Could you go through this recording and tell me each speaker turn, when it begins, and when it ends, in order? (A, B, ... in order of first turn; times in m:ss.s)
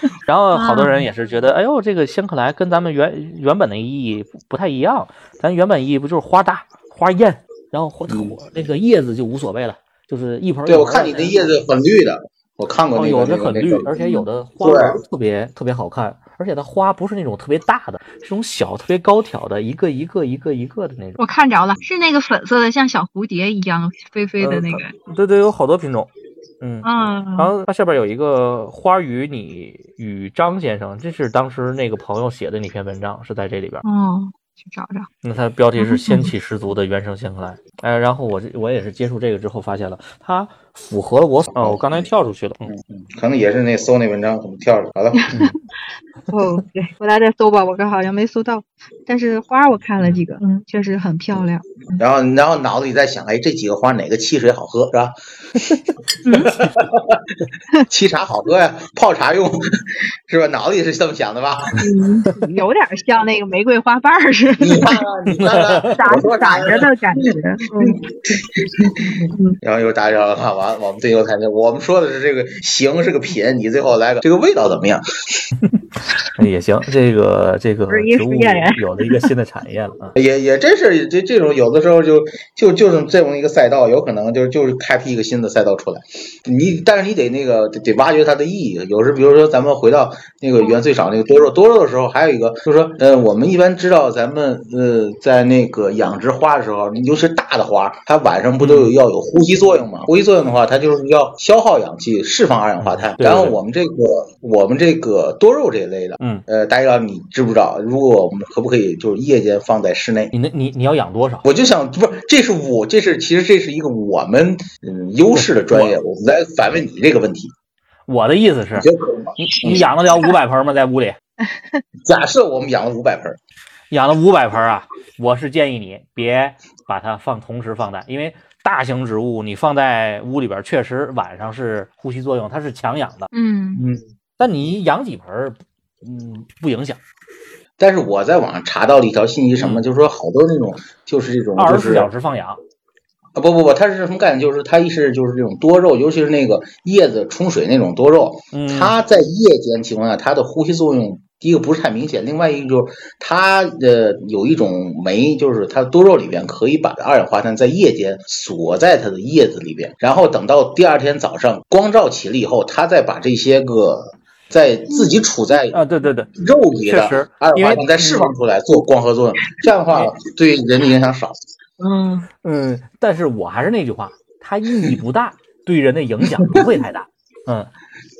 0:00.3-0:11.5 A
0:00.5-0:01.0 B
0:08.1-0:08.4 C
0:10.7-0:13.9 C
0:12.9-0:21.2 A
0:14.6-0:15.0 C
0:21.2-0:24.9 B
0:24.4-0:26.1 A
0:26.6-0:33.8 A
0:26.8-0:27.5 B
0:33.8-0:35.1 B
0:35.2-0:42.7 A
0:35.8-0:36.3 B
0:41.5-0:42.1 C
0:42.7-0:45.5 C
0:46.3-0:52.0 B
0:52.0-0:55.2 C
0:56.3-0:56.5 B
0:56.7-0:57.2 C
0:57.9-0:59.6 C
1:00.3-1:01.8 C
1:01.8-1:05.1 B
1:04.6-1:07.2 C
1:05.3-1:06.0 A
1:05.9-1:08.0 B
1:07.9-1:15.3 C
1:09.3-1:09.6 B
1:16.4-1:20.2 A
1:17.9-1:18.8 B
1:20.2-1:50.3 C
1:38.6-1:39.0 A
1:42.8-1:43.6 A
1:46.2-1:46.4 A
1:50.3-1:51.5 A
1:51.4-1:57.5 C
1:55.3-1:56.0 A
1:58.1-1:58.9 A
1:58.8-1:59.9 C
1:59.4-2:01.2 A
2:01.5-2:01.8 B
2:02.0-2:03.4 C
2:03.9-2:13.3 A
2:13.3-2:13.8 B
2:13.8-2:14.0 C
2:14.4-2:17.0 A
2:17.8-2:22.1 C
2:19.6-2:19.8 A
2:21.6-2:22.6 A
2:23.4-2:45.8 C
2:28.5-2:29.0 A
2:45.7-2:46.3 A
2:46.4-2:51.4 C
2:46.9-2:48.3 A
2:51.8-2:52.3 B
2:52.4-2:57.7 A